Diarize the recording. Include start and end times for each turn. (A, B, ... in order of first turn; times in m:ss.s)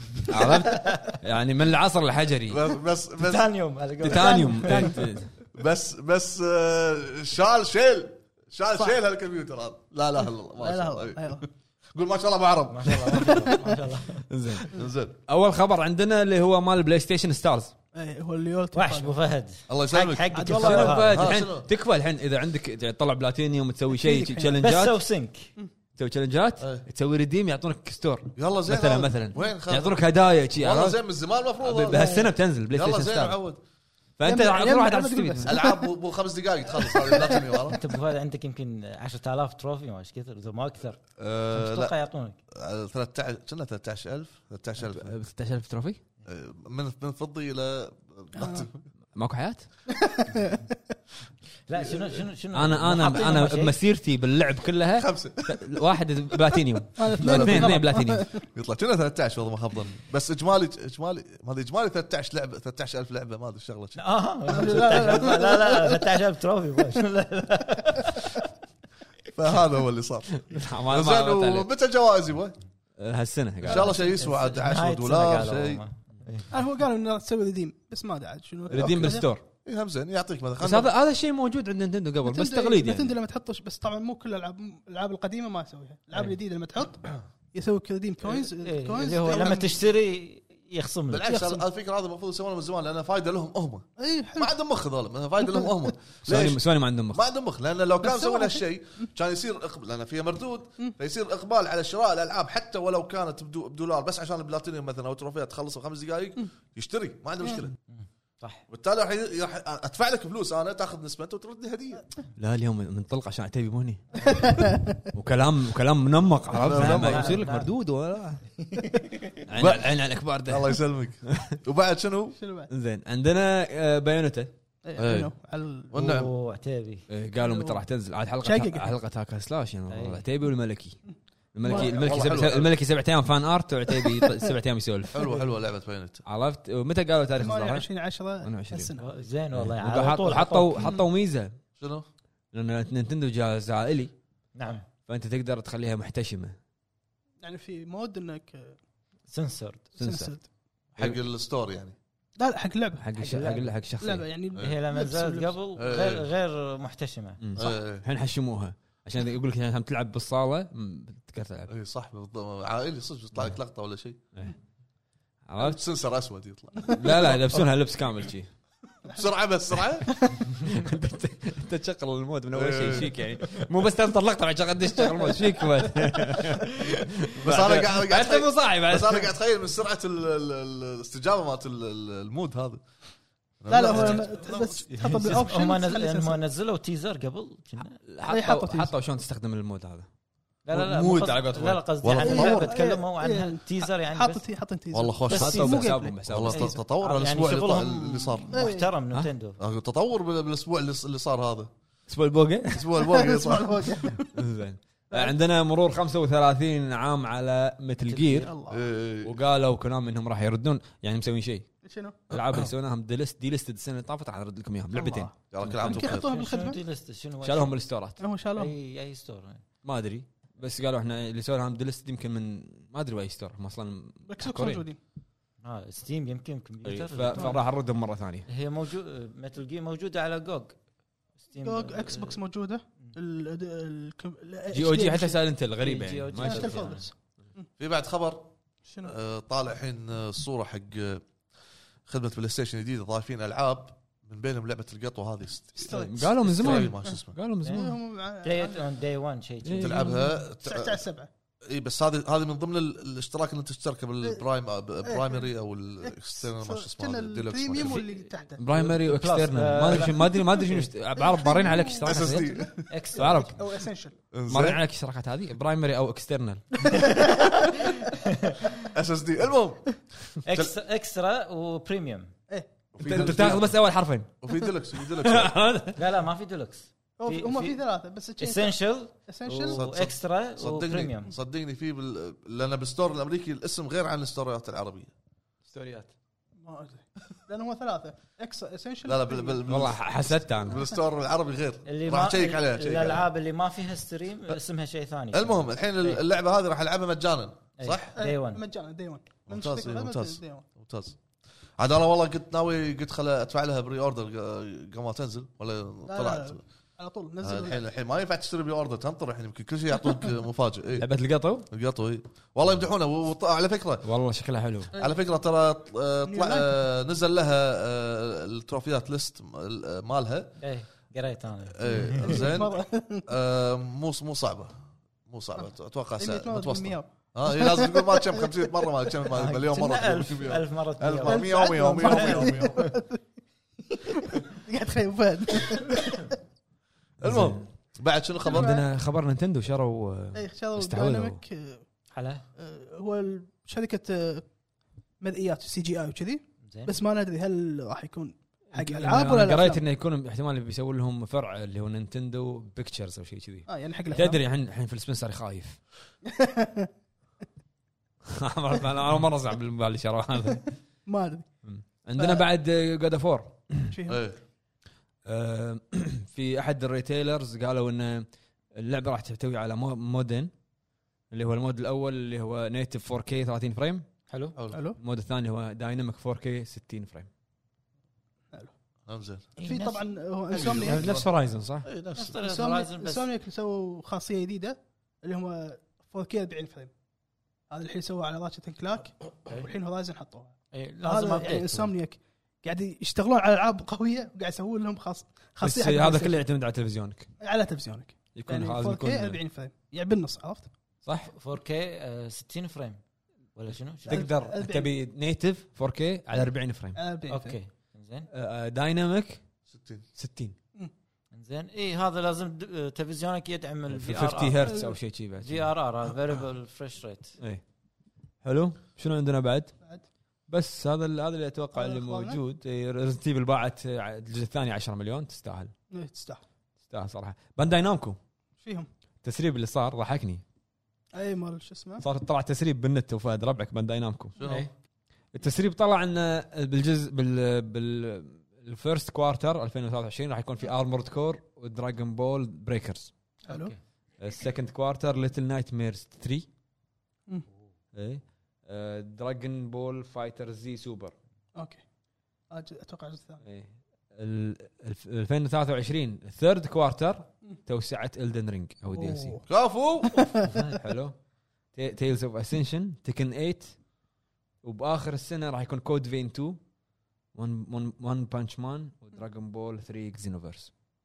0:00.2-0:02.6 A
0:00.7-0:01.2 B
0:02.5-0:03.5 C
0:03.2-0:05.0 B
0:04.0-0:05.3 A
0:04.1-0:05.0 D
0:05.6-0:13.5 C
0:10.6-0:11.4 D
0:12.7-0:14.3 B
0:14.3-0:17.7 A
0:14.7-0:15.2 C
0:17.9-0:19.2 D
0:18.7-0:21.3 B
0:19.7-0:20.5 C
0:20.3-0:21.1 D
0:20.5-0:25.0 A
0:21.1-0:21.7 C
0:23.9-0:24.6 D
0:24.6-0:25.5 B
0:26.0-0:31.0 A
0:26.6-0:26.8 C
0:28.4-0:30.0 C
0:30.6-0:33.6 C
0:31.6-0:33.4 A
0:34.2-0:35.6 A
0:34.2-0:35.8 D
0:35.4-0:37.8 C
0:36.8-0:37.4 D
0:37.7-0:41.0 B
0:41.2-0:41.9 C
0:41.5-0:42.4 B
0:42.5-0:45.1 C
0:44.8-0:46.0 A
0:46.3-0:48.8 C
0:48.4-0:48.7 D
0:49.2-0:49.7 A
0:49.9-0:50.7 D
0:51.7-0:53.8 B
0:51.8-0:52.2 C
0:52.5-0:58.3 A
0:55.0-0:55.6 C
0:57.0-0:58.4 D
0:57.2-0:57.8 C
0:58.5-1:04.0 C
1:04.0-1:08.3 B
1:04.5-1:06.0 D
1:04.5-1:05.2 C
1:09.3-1:12.6 C
1:10.4-1:11.7 A
1:13.0-1:14.0 A
1:13.6-1:15.8 C
1:13.7-1:16.5 B
1:16.5-1:19.2 D
1:18.7-1:19.4 A
1:19.6-1:20.9 C
1:20.6-1:23.2 A
1:22.2-1:29.8 D
1:28.2-1:31.3 B
1:31.1-1:47.8 C
1:31.3-1:31.6 D
1:34.0-1:34.5 D
1:36.3-1:37.2 A
1:38.0-1:38.6 D
1:47.9-1:48.6 B
1:48.7-1:52.0 C
1:52.4-1:54.6 A
1:54.3-1:55.0 D
1:55.1-1:58.5 A
1:56.5-1:57.4 C
1:56.7-1:57.7 B
1:58.7-1:59.2 B
1:59.5-2:01.6 A
1:59.6-2:02.4 C
2:02.4-2:02.7 D
2:02.7-2:04.5 A
2:04.8-2:05.9 D
2:05.0-2:05.3 C
2:05.9-2:06.3 C
2:06.0-2:07.1 B
2:07.1-2:11.0 A
2:07.4-2:07.8 D
2:08.4-2:08.9 D
2:09.9-2:10.2 B
2:11.5-2:15.2 A
2:11.6-2:11.9 D
2:11.7-2:12.7 C
2:15.1-2:16.2 C
2:16.3-2:17.9 A
2:17.4-2:19.1 D
2:18.4-2:18.9 A
2:19.0-2:20.9 B
2:19.6-2:21.6 A
2:20.8-2:21.0 D
2:21.8-2:22.0 C
2:22.5-2:24.1 A
2:24.6-2:24.9 B
2:25.1-2:26.6 A
2:27.4-2:28.8 D
2:29.3-2:29.9 B
2:30.0-2:30.4 D
2:30.0-2:30.3 A
2:31.0-2:32.0 C
2:32.4-2:33.0 D
2:33.0-2:34.2 A
2:33.2-2:33.7 B
2:34.0-2:35.5 D
2:34.6-2:37.4 B
2:35.8-2:36.3 C
2:37.4-2:41.7 A
2:37.6-2:38.1 C
2:41.7-2:44.2 C
2:45.5-2:45.8 A
2:45.6-2:47.6 C
2:46.9-2:48.5 A
2:49.1-2:50.2 C
2:50.3-2:59.3 A
2:52.5-2:53.2 C
2:57.4-3:02.8 C
3:03.6-3:04.8 C
3:03.7-3:06.4 D
3:03.9-3:04.2 B
3:04.9-3:08.0 B
3:08.0-3:10.1 A
3:08.3-3:08.9 D
3:10.6-3:14.4 B
3:10.7-3:11.8 A
3:12.0-3:12.7 C
3:12.2-3:16.2 D
3:14.9-3:15.7 C
3:15.3-3:15.9 B
3:15.3-3:16.8 A
3:16.3-3:18.5 C
3:16.5-3:19.6 B
3:18.5-3:18.9 D
3:19.6-3:21.7 C
3:22.1-3:22.9 A
3:22.7-3:24.1 C
3:23.0-3:24.3 D
3:24.2-3:28.5 A
3:28.0-3:28.5 B
3:28.4-3:28.8 D
3:28.7-3:29.4 C
3:29.2-3:31.7 A
3:31.8-3:32.2 D
3:32.3-3:36.1 A
3:32.3-3:32.7 C
3:34.9-3:36.8 D
3:35.5-3:36.3 C
3:36.1-3:37.8 B
3:37.4-3:38.2 A
3:38.2-3:38.7 D
3:38.6-3:39.6 B
3:39.8-3:44.9 A
3:44.3-3:45.0 D
3:45.6-3:47.6 B
3:46.8-3:48.5 A
3:48.5-3:50.8 B
3:51.4-3:52.4 B
3:51.6-3:55.4 D
3:54.7-3:56.9 A
3:55.8-3:57.1 B
3:56.4-3:57.6 D
3:57.8-3:58.5 C
3:58.9-3:59.1 D
3:59.0-4:01.2 C
4:02.1-4:07.4 C
4:05.8-4:07.2 D
4:05.9-4:08.0 A
4:07.6-4:07.9 B
4:07.7-4:08.9 D
4:08.4-4:10.0 B
4:09.6-4:10.4 A
4:09.8-4:11.0 C
4:10.6-4:11.3 D
4:11.7-4:18.0 C
4:15.0-4:15.5 D
4:16.0-4:18.6 D
4:17.8-4:20.9 B
4:18.6-4:23.6 A
4:21.2-4:22.2 D
4:22.0-4:22.8 C
4:22.9-4:23.6 B
4:23.6-4:24.2 D
4:24.3-4:24.8 C
4:24.5-4:26.8 A
4:26.9-4:28.0 D
4:27.2-4:28.7 B
4:28.9-4:29.9 C
4:30.4-4:32.3 B
4:32.9-4:33.8 C
4:33.0-4:34.4 A
4:34.4-4:35.6 C
4:35.0-4:36.0 A
4:36.0-4:37.8 B
4:37.2-4:39.8 D
4:38.4-4:41.3 B
4:39.7-4:45.1 C
4:45.7-4:46.1 A
4:46.6-4:49.6 D
4:49.0-4:53.2 C
4:49.7-4:50.8 A
4:51.9-4:56.2 B
4:55.3-4:58.1 C
4:57.8-4:58.6 B
4:58.2-5:00.6 D
4:59.5-5:01.2 C
5:01.8-5:06.6 C
5:06.1-5:07.8 D
5:07.4-5:11.1 C
5:11.0-5:11.7 A
5:11.7-5:14.1 C
5:14.0-5:14.9 A
5:15.0-5:20.6 C
5:16.3-5:16.8 D
5:20.6-5:22.6 B
5:21.7-5:32.8 C
5:22.3-5:23.2 D
5:26.2-5:28.5 D
5:29.3-5:33.0 B
5:31.2-5:33.2 D
5:34.1-5:36.4 D
5:37.2-5:37.7 A
5:37.2-5:38.8 C
5:38.4-5:38.8 D
5:38.5-5:41.4 A
5:40.4-5:41.8 D
5:42.1-5:42.4 B
5:42.6-5:44.5 D
5:45.2-5:49.8 D
5:46.6-5:46.9 B
5:48.7-5:55.8 A
5:53.7-5:54.4 D
5:56.3-5:56.9 D
5:58.3-6:00.8 A
6:01.1-6:01.5 D
6:01.6-6:04.0 A
6:02.2-6:02.4 D
6:03.9-6:04.2 D
6:04.1-6:04.4 C
6:05.3-6:10.5 A
6:11.3-6:14.1 A
6:14.3-6:14.6 B
6:14.7-6:15.0 D
6:15.0-6:17.3 A
6:19.1-6:19.5 C
6:19.6-6:20.0 B
6:19.6-6:21.0 D
6:20.5-6:21.3 C
6:20.6-6:21.9 A
6:21.9-6:22.3 C
6:22.1-6:23.3 B
6:22.4-6:26.9 D
6:27.7-6:36.4 D
6:30.7-6:31.9 B
6:35.6-6:37.3 A
6:37.4-6:40.7 D
6:38.3-6:39.4 A
6:41.0-6:41.3 A
6:41.3-6:43.0 B
6:43.6-6:44.3 B
6:44.1-6:44.9 D
6:44.1-6:47.0 A
6:47.0-6:47.6 D
6:47.3-6:48.3 B
6:48.3-6:49.4 A
6:49.7-6:50.0 C
6:50.2-6:50.6 A
6:51.3-6:54.8 B
6:53.9-6:55.7 A
6:54.7-6:54.9 D
6:55.4-6:57.4 B
6:58.4-6:59.7 A
7:00.5-7:05.7 A
7:01.8-7:02.4 D
7:05.9-7:06.4 D
7:06.9-7:08.2 A
7:08.6-7:08.9 D
7:09.2-7:10.4 A
7:11.2-7:12.0 D
7:12.0-7:14.4 A
7:14.4-7:14.7 C
7:14.4-7:14.7 B
7:15.3-7:23.1 A
7:23.5-7:23.8 B
7:23.5-7:23.7 D
7:24.2-7:26.5 A
7:27.9-7:31.1 A
7:31.6-7:31.8 D
7:32.5-7:33.4 D
7:33.4-7:39.4 A
7:38.9-7:39.4 D
7:39.5-7:40.3 C
7:40.1-7:40.6 D
7:40.7-7:41.2 A
7:41.7-7:43.8 A
7:44.6-7:46.6 A
7:47.4-7:50.7 A